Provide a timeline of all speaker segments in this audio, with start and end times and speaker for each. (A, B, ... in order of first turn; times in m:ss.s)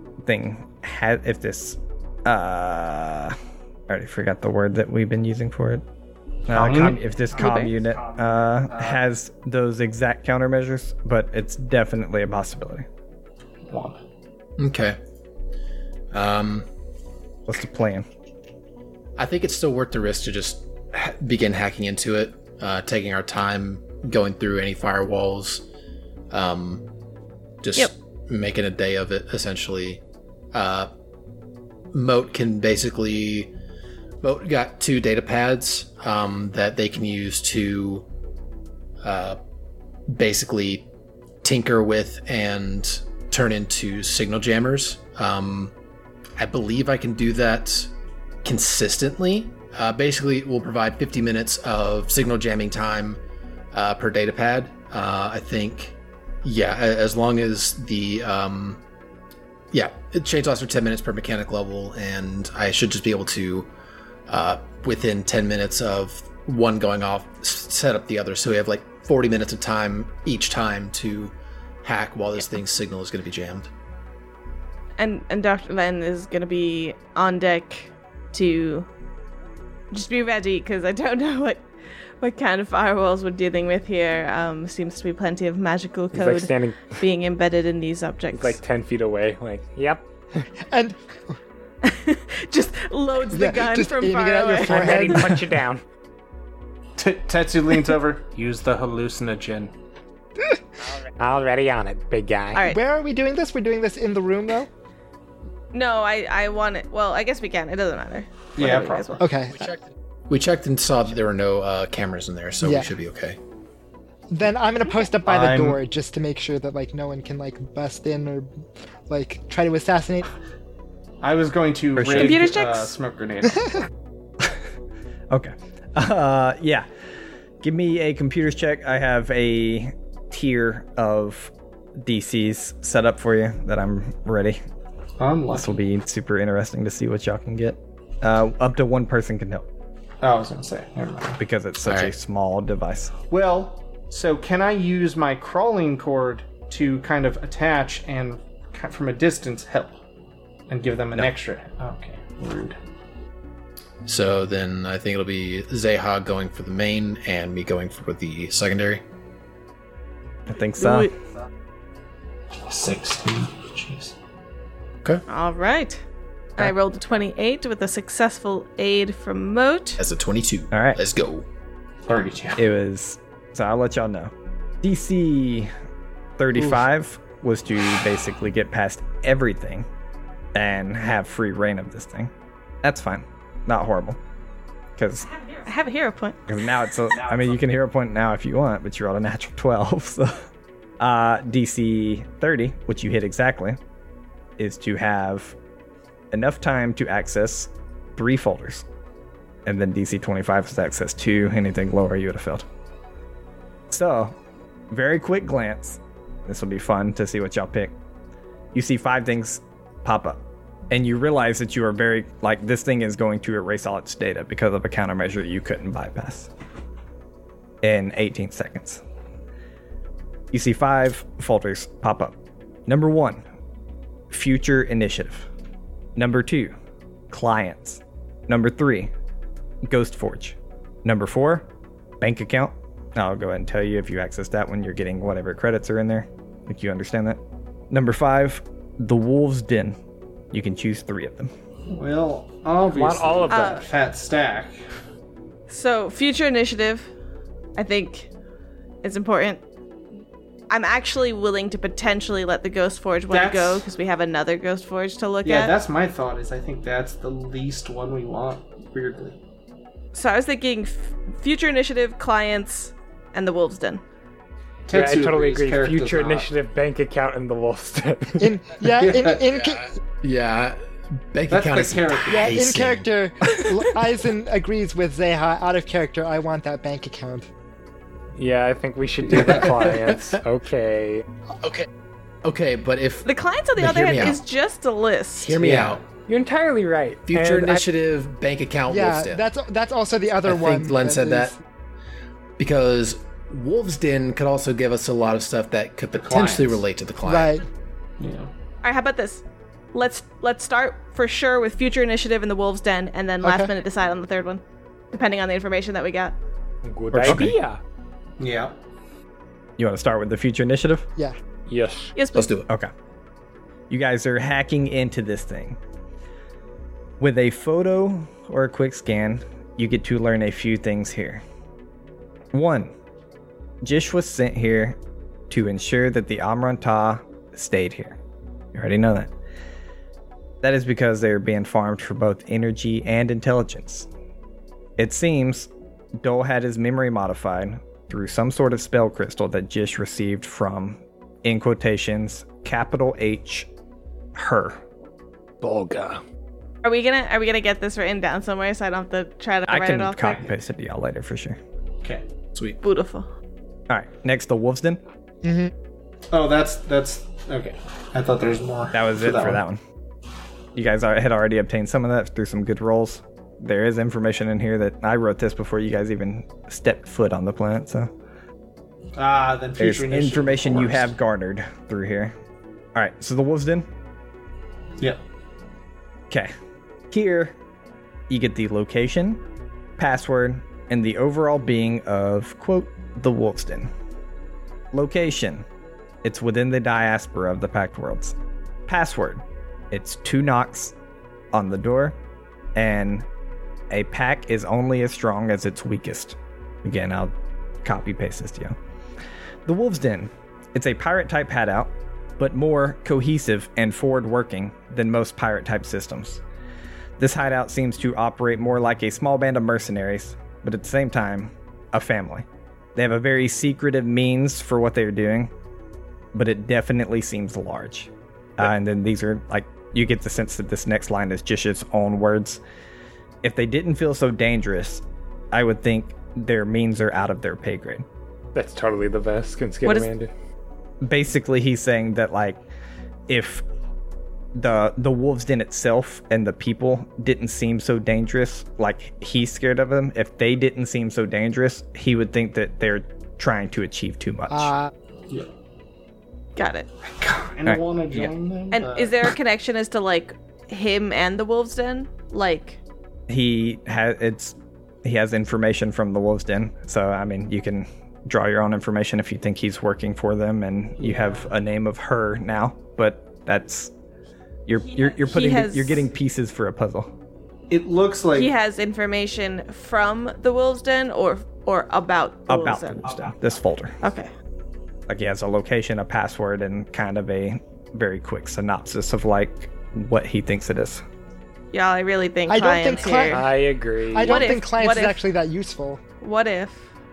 0:00.2-0:03.4 A
0:03.9-0:05.8 A
0:06.5-0:12.9 A
0:06.5-0:09.0 B
0:13.7-0:14.0 B
0:14.6-0:15.0 C
0:16.1-0:16.7 C
0:17.5-0:18.1 A
0:19.2-0:25.6 C
0:26.3-0:26.9 C
0:27.6-0:30.0 C
0:30.5-0:30.9 C
0:31.9-0:33.5 C
0:34.2-0:38.1 C
0:39.0-0:39.4 C
0:40.1-0:40.9 C
0:41.4-0:45.7 C
0:46.4-0:47.9 C
0:48.4-0:53.2 C
0:53.7-0:58.8 C
0:59.7-1:03.7 C
1:04.3-1:13.7 C
1:15.0-1:18.9 D
1:19.9-1:21.6 D
1:22.2-1:28.6 D
1:26.1-1:27.0 E
1:28.3-1:30.1 E
1:30.7-1:31.3 F
1:31.8-1:35.3 D
1:33.3-1:35.4 F
1:34.6-1:35.8 E
1:37.0-1:39.7 B
1:41.2-1:42.7 E
1:42.5-1:42.8 D
1:42.7-1:44.7 F
1:45.7-1:49.3 D
1:48.6-1:49.3 B
1:49.2-1:49.6 F
1:50.3-1:53.4 C
1:52.6-1:52.9 F
1:54.3-1:58.5 F
1:55.2-1:55.8 B
1:59.1-2:00.3 F
2:01.2-2:03.9 B
2:02.0-2:02.5 A
2:02.2-2:02.9 D
2:05.3-2:06.9 A
2:07.6-2:14.6 A
2:15.2-2:15.7 B
2:15.5-2:19.7 A
2:20.2-2:21.4 B
2:21.4-2:23.1 A
2:21.8-2:22.1 C
2:23.3-2:29.9 B
2:30.7-2:32.8 B
2:34.1-2:39.0 C
2:40.5-2:41.1 A
2:40.8-2:41.1 D
2:42.6-2:44.1 B
2:45.3-2:46.0 D
2:46.6-2:50.0 D
2:50.0-2:51.5 C
2:50.7-2:51.0 A
2:52.1-2:52.6 B
2:52.6-2:55.7 A
2:56.4-2:59.9 A
3:00.6-3:04.2 A
3:05.0-3:05.3 A
3:05.6-3:06.4 D
3:06.5-3:10.5 A
3:11.0-3:13.8 A
3:14.6-3:15.6 A
3:16.3-3:18.9 A
3:19.7-3:22.7 A
3:23.9-3:24.4 A
3:24.9-3:27.9 A
3:28.7-3:36.5 A
3:37.8-3:39.0 A
3:40.5-3:42.4 A
3:42.9-3:43.4 A
3:44.3-3:45.5 A
3:46.2-3:46.8 A
3:47.3-3:49.1 A
3:49.9-3:51.7 A
3:52.2-3:57.4 A
3:57.9-4:00.0 A
4:00.5-4:01.5 A
4:01.9-4:04.8 B
4:02.9-4:03.8 E
4:03.5-4:03.8 D
4:05.7-4:07.1 D
4:07.8-4:08.3 D
4:09.0-4:09.6 D
4:10.7-4:15.8 D
4:13.3-4:13.9 B
4:15.4-4:19.4 B
4:20.1-4:24.0 D
4:24.9-4:26.5 B
4:24.9-4:28.6 E
4:28.4-4:29.8 F
4:29.3-4:30.8 C
4:31.3-4:33.1 C
4:31.5-4:32.6 B
4:32.3-4:37.5 F
4:38.4-4:41.2 E
4:40.0-4:40.4 C
4:42.4-4:43.3 C
4:43.2-4:45.6 D
4:43.8-4:44.4 C
4:45.4-4:46.0 C
4:45.6-4:46.0 B
4:46.3-4:47.8 E
4:47.3-4:49.5 C
4:48.9-4:51.5 F
4:50.4-4:51.5 C
4:52.6-4:57.6 C
4:56.1-4:56.8 B
4:57.2-4:57.6 F
4:58.2-4:58.5 B
4:58.8-5:06.4 D
5:03.4-5:03.7 F
5:06.8-5:07.8 E
5:07.2-5:07.6 A
5:08.4-5:08.7 B
5:09.8-5:11.1 A
5:11.7-5:12.1 E
5:12.1-5:12.5 D
5:12.3-5:12.7 C
5:13.9-5:15.8 A
5:17.2-5:21.4 A
5:22.5-5:22.9 A
5:23.8-5:25.0 A
5:25.5-5:28.2 A
5:28.7-5:29.3 A
5:30.6-5:34.1 A
5:35.0-5:43.7 A
5:44.4-5:44.8 A
5:45.6-5:46.2 C
5:46.8-5:50.5 D
5:49.7-5:51.6 A
5:52.8-5:53.3 D
5:53.9-5:55.0 A
5:55.4-5:55.7 F
5:56.3-5:59.6 B
5:58.9-5:59.8 A
6:00.8-6:08.1 A
6:09.2-6:11.1 B
6:09.8-6:12.4 A
6:13.0-6:13.9 A
6:17.1-6:17.6 A
6:18.3-6:19.4 A
6:20.0-6:23.9 A
6:24.9-6:25.6 A
6:26.2-6:28.4 A
6:28.9-6:31.0 A
6:31.5-6:32.1 A
6:32.8-6:33.2 A
6:33.9-6:37.3 A
6:37.8-6:38.8 A
6:39.7-6:46.4 A
6:47.2-6:55.5 A
6:56.3-7:02.6 A
7:03.4-7:08.0 A
7:08.6-7:10.3 E
7:09.8-7:10.1 D
7:11.0-7:12.6 A
7:13.3-7:13.6 A
7:14.5-7:24.7 A
7:24.5-7:24.9 F
7:26.6-7:26.9 D
7:27.2-7:29.2 B
7:27.7-7:28.3 A
7:28.7-7:32.8 D
7:33.3-7:43.9 A
7:44.7-7:47.1 A
7:45.1-7:46.0 D
7:47.7-7:48.5 B
7:48.4-7:53.1 D
7:52.5-7:54.0 A
7:54.0-7:54.3 D
7:55.1-8:01.0 A
8:01.7-8:03.5 D
8:02.5-8:03.5 F
8:03.3-8:04.6 E
8:04.1-8:06.0 F
8:04.2-8:05.2 D
8:06.2-8:06.8 D